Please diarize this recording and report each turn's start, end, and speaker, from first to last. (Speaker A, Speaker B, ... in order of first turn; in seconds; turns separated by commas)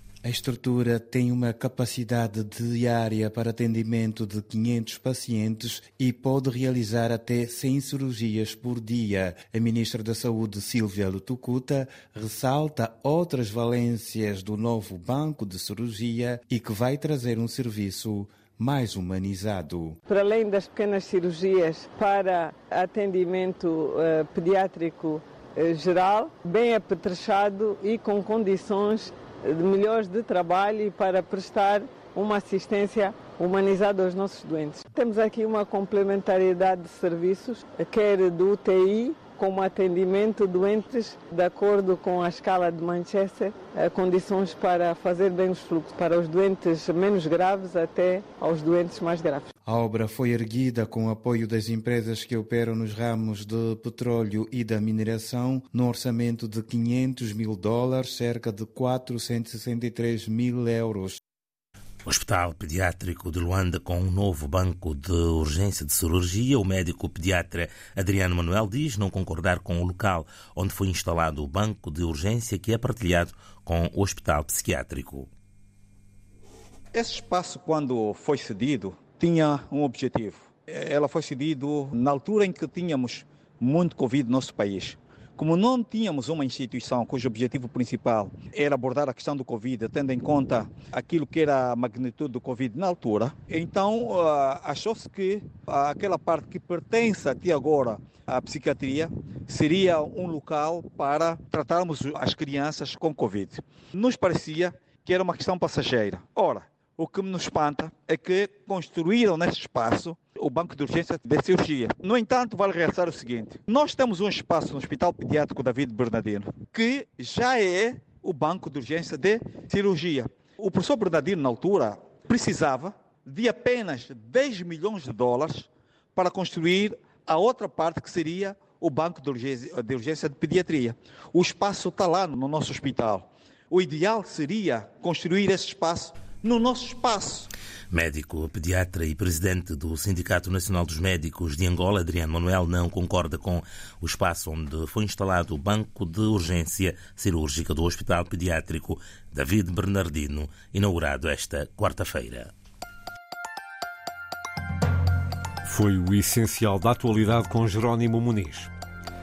Speaker A: 0.2-20.0, Speaker B: 20.1-49.5, Speaker A: 49.6-61.2, Speaker C: 62.0-75.3, Speaker D: 76.9-137.5, Speaker C: 137.9-152.5, Speaker E: 155.6-158.7